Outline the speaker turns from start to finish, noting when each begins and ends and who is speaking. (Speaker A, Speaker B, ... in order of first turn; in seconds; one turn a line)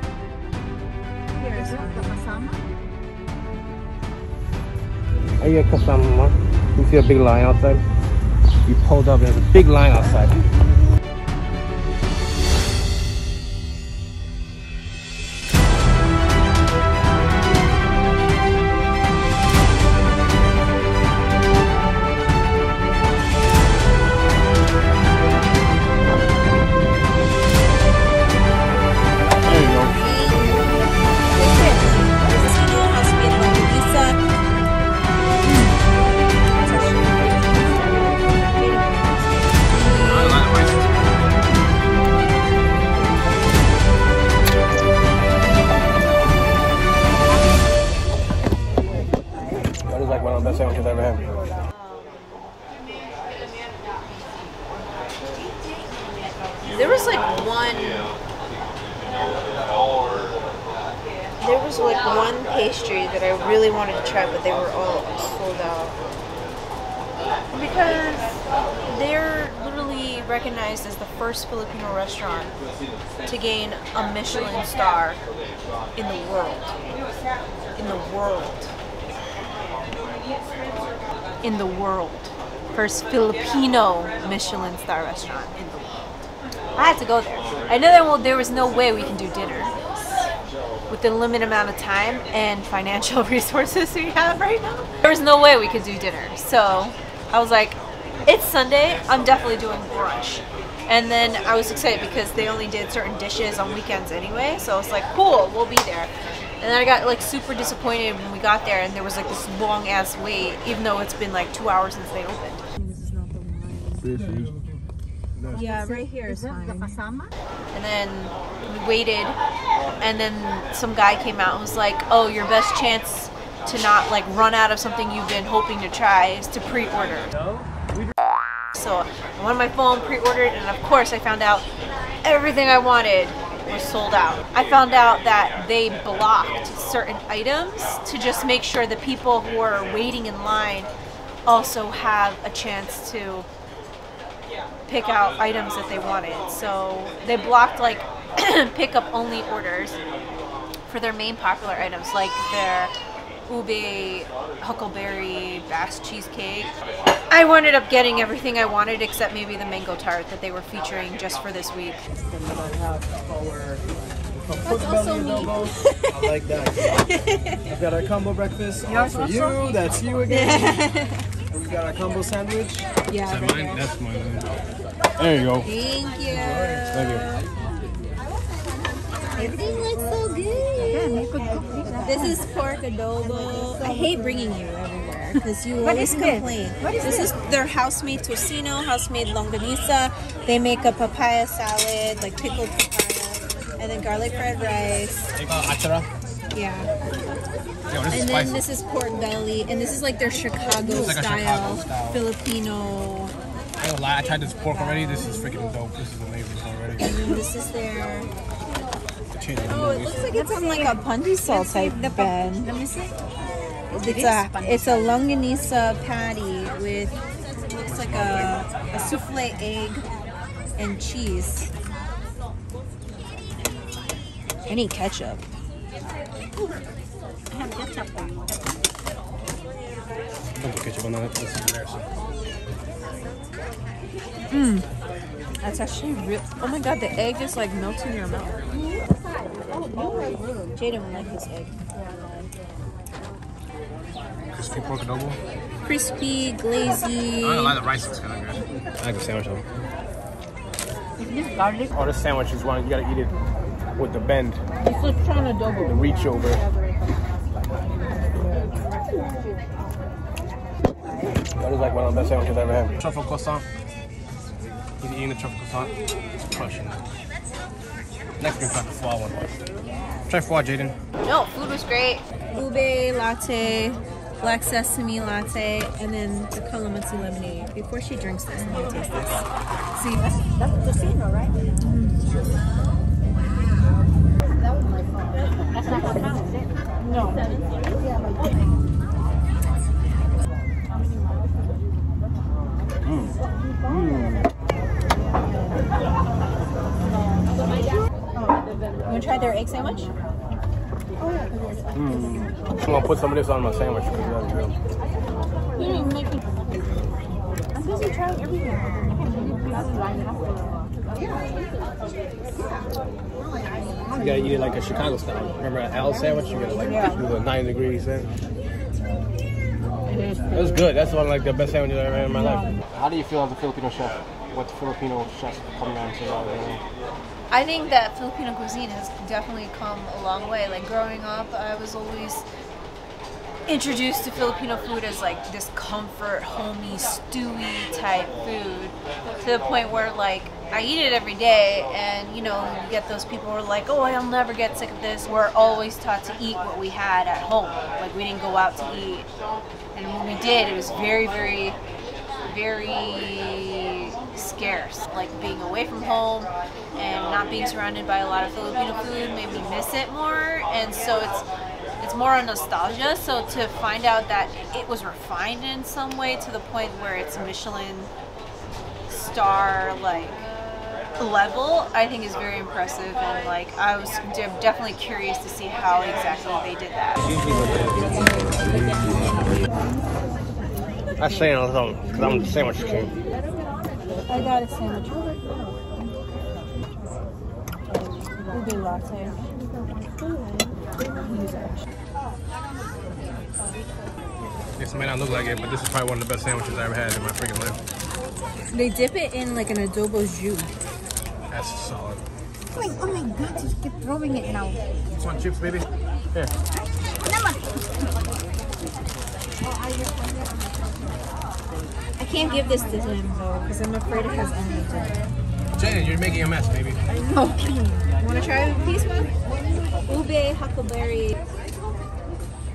Speaker A: 1.4-2.6
Speaker B: 1.4-1.9
Speaker C: 5.4-7.8
Speaker C: 8.7-10.4
Speaker C: 29.4-29.9
Speaker B: 29.7-34.2
Speaker B: 36.6-37.6
Speaker B: 38.4-40.4
Speaker C: 39.9-40.9
Speaker C: 49.9-51.2
Speaker B: 56.7-58.1
Speaker B: 61.4-65.9
Speaker B: 67.5-68.3
Speaker B: 68.8-72.5
Speaker B: 73.2-75.2
Speaker B: 76.0-76.8
Speaker B: 77.8-78.7
Speaker B: 81.4-86.2
Speaker B: 86.8-90.3
Speaker B: 90.9-106.1
Speaker B: 106.6-112.6
Speaker A: 112.8-114.2
Speaker C: 114.0-114.5
Speaker A: 115.5-117.3
Speaker B: 115.5-117.0
Speaker B: 117.7-119.4
Speaker B: 120.0-127.3
Speaker B: 128.7-131.7
Speaker B: 132.2-140.9
Speaker B: 141.5-143.5
Speaker B: 144.9-150.0
Speaker B: 150.9-152.9
Speaker B: 153.5-156.7
Speaker B: 157.3-162.0
Speaker D: 162.3-163.8
Speaker D: 164.4-166.7
Speaker B: 164.6-167.6
Speaker C: 165.1-165.5
Speaker D: 167.7-168.7
Speaker C: 168.4-170.5
Speaker B: 168.8-171.2
Speaker D: 169.6-170.7
Speaker D: 171.5-172.8
Speaker B: 173.1-173.8
Speaker C: 173.2-174.5
Speaker C: 175.2-175.7
Speaker B: 175.6-177.4
Speaker C: 176.8-177.2
Speaker A: 178.4-180.0
Speaker B: 179.3-181.2
Speaker A: 180.8-182.4
Speaker B: 182.0-195.3
Speaker A: 183.2-184.2
Speaker A: 185.8-187.3
Speaker C: 195.4-196.1
Speaker B: 196.5-196.9
Speaker C: 197.9-198.6
Speaker B: 198.1-203.3
Speaker C: 200.8-202.2
Speaker C: 203.8-207.3
Speaker B: 207.0-208.3
Speaker C: 209.3-210.2
Speaker B: 209.7-212.7
Speaker A: 210.3-213.1
Speaker A: 213.9-215.1
Speaker B: 213.9-217.2
Speaker B: 217.7-220.0
Speaker C: 217.8-218.6
Speaker B: 220.8-221.7
Speaker B: 224.7-225.4
Speaker A: 227.5-228.3
Speaker C: 230.6-232.1
Speaker B: 234.5-234.8
Speaker B: 235.6-238.6
Speaker B: 240.8-241.8
Speaker C: 244.5-245.4
Speaker B: 245.8-247.8
Speaker C: 247.4-249.6
Speaker A: 251.2-251.9
Speaker C: 251.9-253.3
Speaker C: 253.9-254.6
Speaker C: 255.7-256.6
Speaker C: 261.6-263.6
Speaker C: 265.0-265.9
Speaker C: 266.5-267.0
Speaker C: 268.4-269.4
Speaker C: 270.3-270.9
Speaker B: 271.2-280.2
Speaker A: 280.2-281.5
Speaker B: 281.8-282.2
Speaker A: 285.7-286.7
Speaker B: 287.0-287.4
Speaker C: 293.1-293.3
Speaker C: 293.9-294.4
Speaker B: 299.1-300.1
Speaker C: 301.9-304.7
Speaker B: 305.8-306.2
Speaker A: 307.7-310.5
Speaker C: 314.1-318.3
Speaker C: 320.5-326.8
Speaker B: 327.5-332.4
Speaker B: 333.7-349.2
Speaker B: 349.9-351.8
Speaker B: 352.4-361.4
Speaker B: 362.0-368.1
Speaker B: 369.1-370.4
Speaker B: 371.2-377.2
Speaker C: 377.2-379.5
Speaker C: 381.2-383.1
Speaker B: 384.3-385.3
Speaker B: 388.5-389.4
Speaker B: 391.1-391.8
Speaker C: 394.8-397.8
Speaker B: 398.7-400.7
Speaker C: 401.5-402.2
Speaker A: 402.7-404.8
Speaker C: 405.1-406.5
Speaker A: 407.2-407.8
Speaker B: 412.2-415.2
Speaker C: 415.8-417.0
Speaker B: 417.3-419.3
Speaker B: 420.1-421.3